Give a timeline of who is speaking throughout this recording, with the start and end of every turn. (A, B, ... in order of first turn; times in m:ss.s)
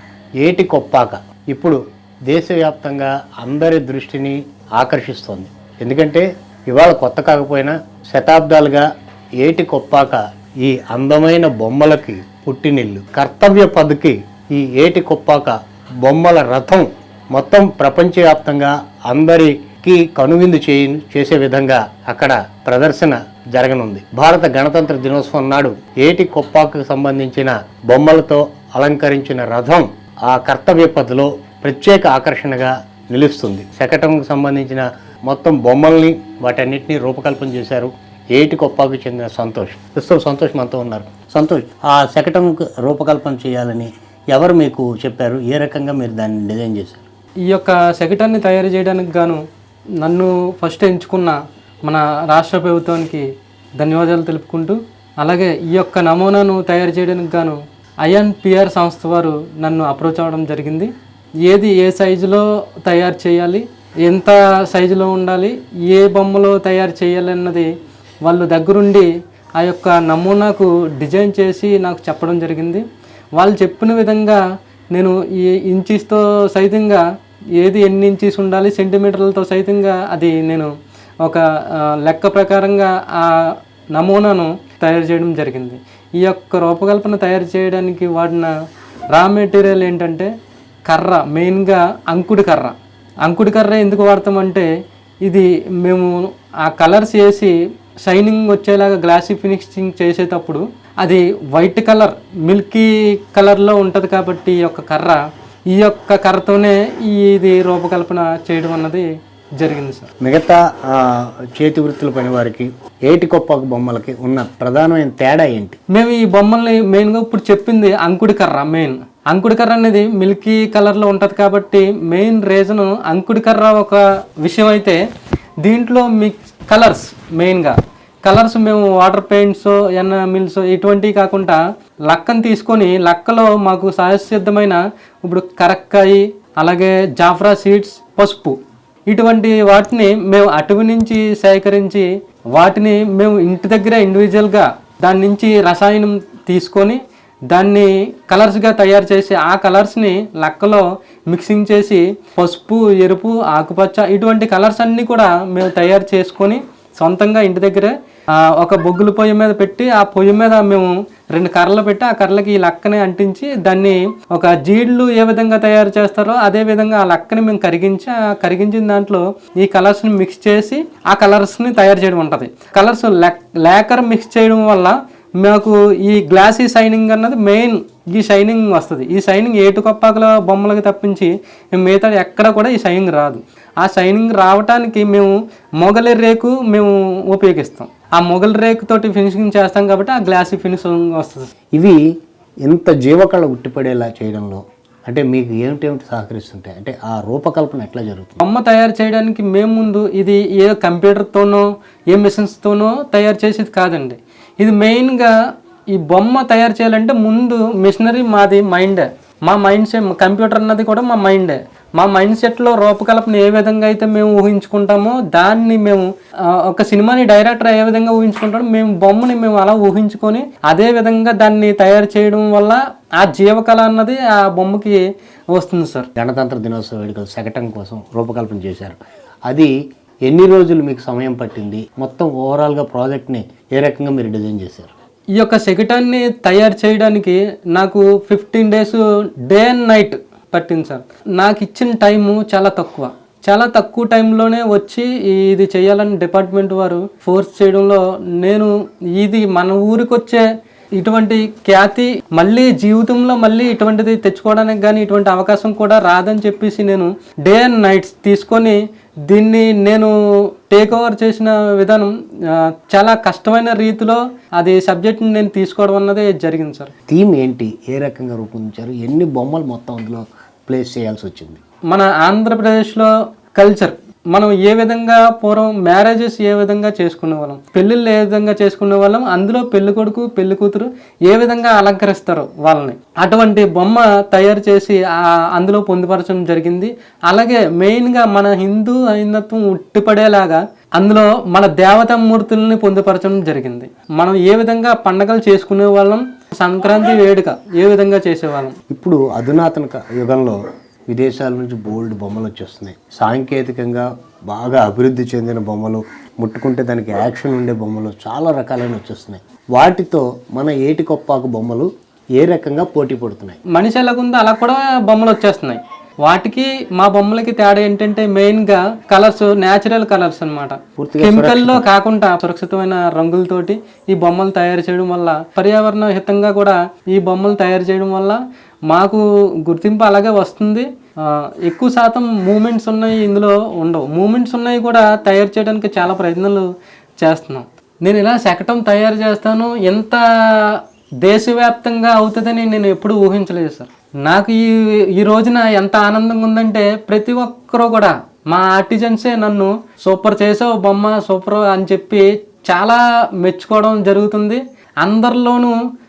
0:00.4-0:08.9 A
0:09.4-0:47.0 A
0:47.5-0:49.4 B
0:50.0-1:00.9 B
1:01.4-1:07.7 B
1:08.2-1:12.8 B
1:13.4-1:14.4 B
1:14.9-1:17.0 B
1:17.6-1:20.7 B
1:21.2-1:28.5 B
1:29.1-1:30.3 B
1:30.8-1:34.7 B
1:35.2-1:45.2 B
1:45.7-1:50.1 B
1:50.2-1:55.8 A
1:55.9-2:05.0 B
2:05.6-2:18.6 B
2:19.1-3:11.5 B
3:12.6-3:18.4 A
3:18.4-3:25.3 B
3:25.9-3:46.1 B
3:46.2-3:49.7 A
3:50.2-3:54.9 A
3:55.4-4:10.4 B
4:11.0-4:26.9 B
4:27.1-4:31.6 A
4:31.9-4:58.8 B
4:58.9-5:13.6 A
5:13.7-5:55.7 B
5:21.0-5:21.8 A